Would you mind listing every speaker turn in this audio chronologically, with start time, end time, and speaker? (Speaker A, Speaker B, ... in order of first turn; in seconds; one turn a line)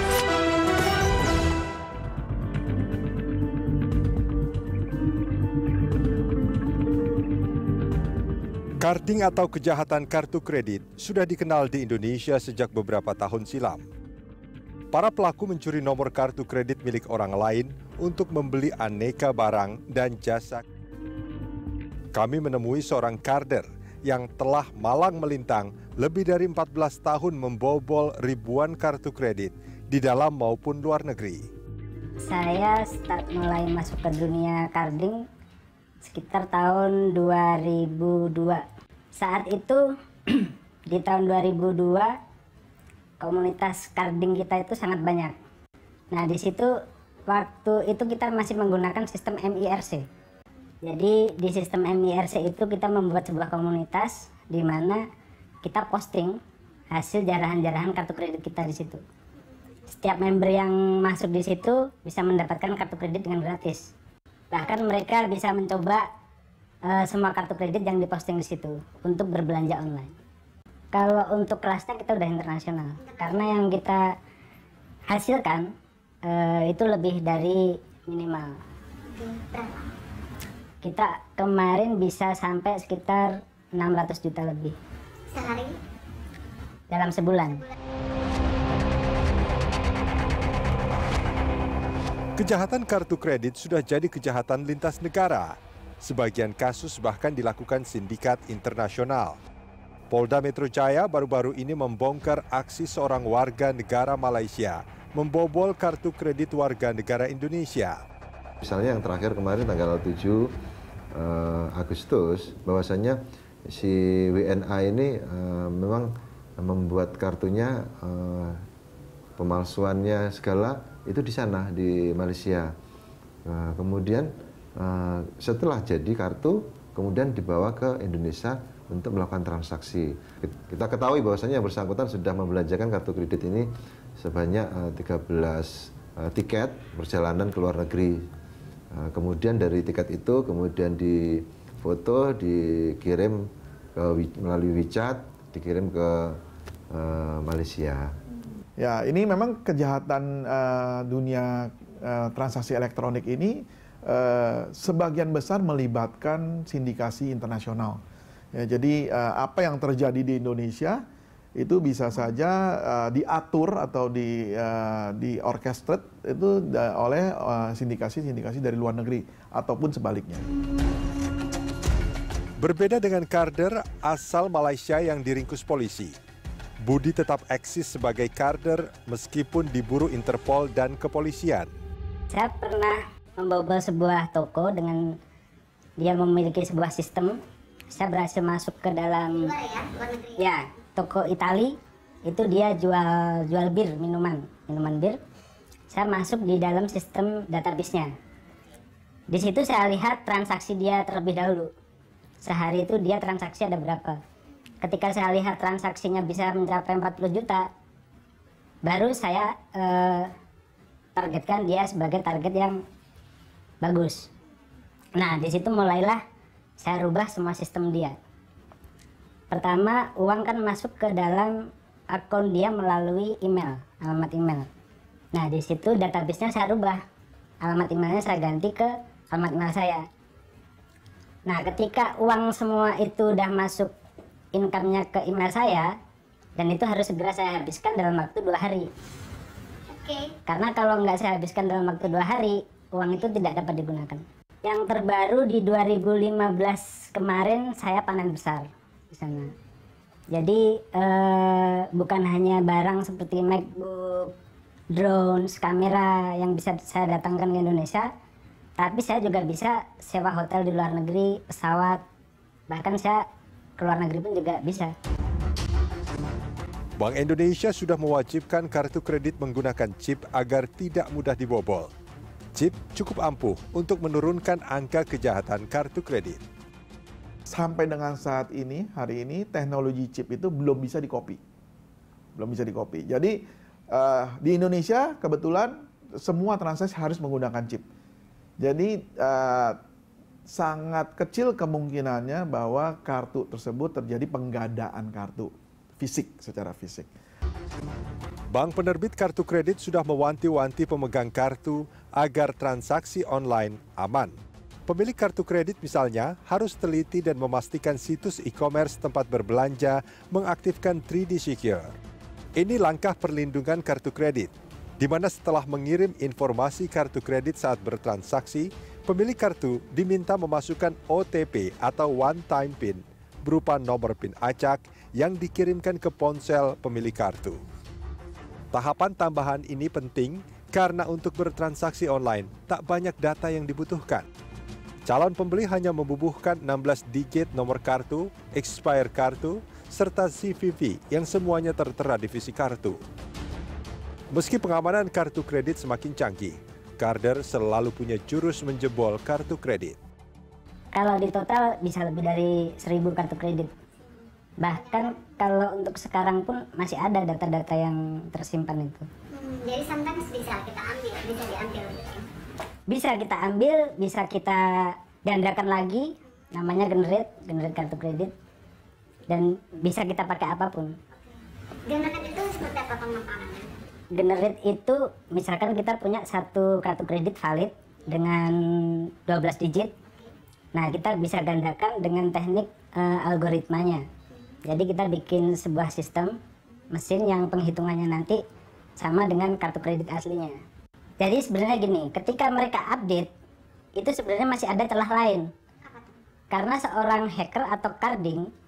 Speaker A: 8.8-13.8
Speaker A: 14.9-20.6
Speaker A: 22.1-31.4
Speaker B: 32.2-35.2
Speaker B: 36.0-38.6
Speaker B: 39.2-42.1
Speaker B: 43.2-45.3
Speaker B: 46.1-46.7
Speaker B: 47.3-50.0
Speaker B: 50.8-55.0
Speaker B: 55.6-56.4
Speaker B: 56.9-59.0
Speaker B: 59.9-63.9
Speaker B: 64.5-66.0
Speaker B: 66.9-70.1
Speaker B: 70.9-74.0
Speaker C: 73.0-73.4
Speaker B: 75.1-75.7
Speaker B: 76.2-78.5
Speaker C: 79.1-79.9
Speaker B: 80.8-84.7
Speaker C: 85.3-85.8
Speaker B: 86.9-87.6
Speaker A: 92.4-99.4
Speaker A: 100.1-108.0
Speaker D: 108.6-110.5
Speaker D: 111.1-118.6
Speaker D: 119.4-122.7
Speaker D: 123.5-138.3
Speaker D: 138.9-148.1
Speaker E: 148.8-158.0
Speaker E: 158.5-161.0
Speaker E: 161.6-170.5
Speaker A: 172.6-176.1
Speaker A: 176.8-181.7
Speaker B: 182.3-185.1
Speaker B: 186.0-187.4
Speaker B: 187.9-189.5
Speaker C: 189.4-190.4
Speaker B: 190.4-195.2
Speaker B: 195.9-198.1
Speaker B: 199.3-201.7
Speaker B: 202.4-204.2
Speaker B: 204.8-207.7
Speaker B: 208.8-210.3
Speaker B: 211.2-212.8
Speaker B: 213.8-214.3
Speaker B: 215.2-216.2
Speaker B: 216.8-218.1
Speaker B: 219.5-221.5
Speaker B: 222.1-224.7
Speaker B: 225.3-227.0
Speaker B: 227.6-230.0
Speaker B: 231.5-233.9
Speaker B: 234.5-235.9
Speaker B: 236.6-238.9
Speaker C: 239.9-240.3
Speaker B: 240.5-249.5
Speaker B: 250.3-254.3
Speaker B: 254.9-258.1
Speaker B: 258.8-262.0
Speaker B: 262.7-263.2
Speaker B: 263.8-264.9
Speaker A: 267.0-271.9
Speaker A: 272.5-276.4
Speaker E: 277.5-281.4
Speaker E: 282.4-283.4
Speaker E: 283.9-287.8
Speaker E: 288.6-289.8
Speaker E: 290.5-297.1
Speaker A: 298.5-304.3
Speaker A: 304.9-311.9
Speaker A: 312.6-327.6
Speaker A: 328.7-334.3
Speaker A: 335.1-343.0
Speaker A: 344.3-350.0
Speaker B: 350.9-353.7
Speaker B: 354.6-359.0
Speaker C: 354.7-355.0
Speaker C: 359.3-362.2
Speaker B: 362.9-368.3
Speaker B: 369.3-370.9
Speaker C: 371.9-373.7
Speaker B: 374.1-379.9
Speaker B: 380.7-384.0
Speaker B: 384.6-386.3
Speaker B: 386.9-388.4
Speaker B: 389.0-390.5
Speaker B: 391.2-393.3
Speaker B: 394.0-395.5
Speaker B: 396.5-398.5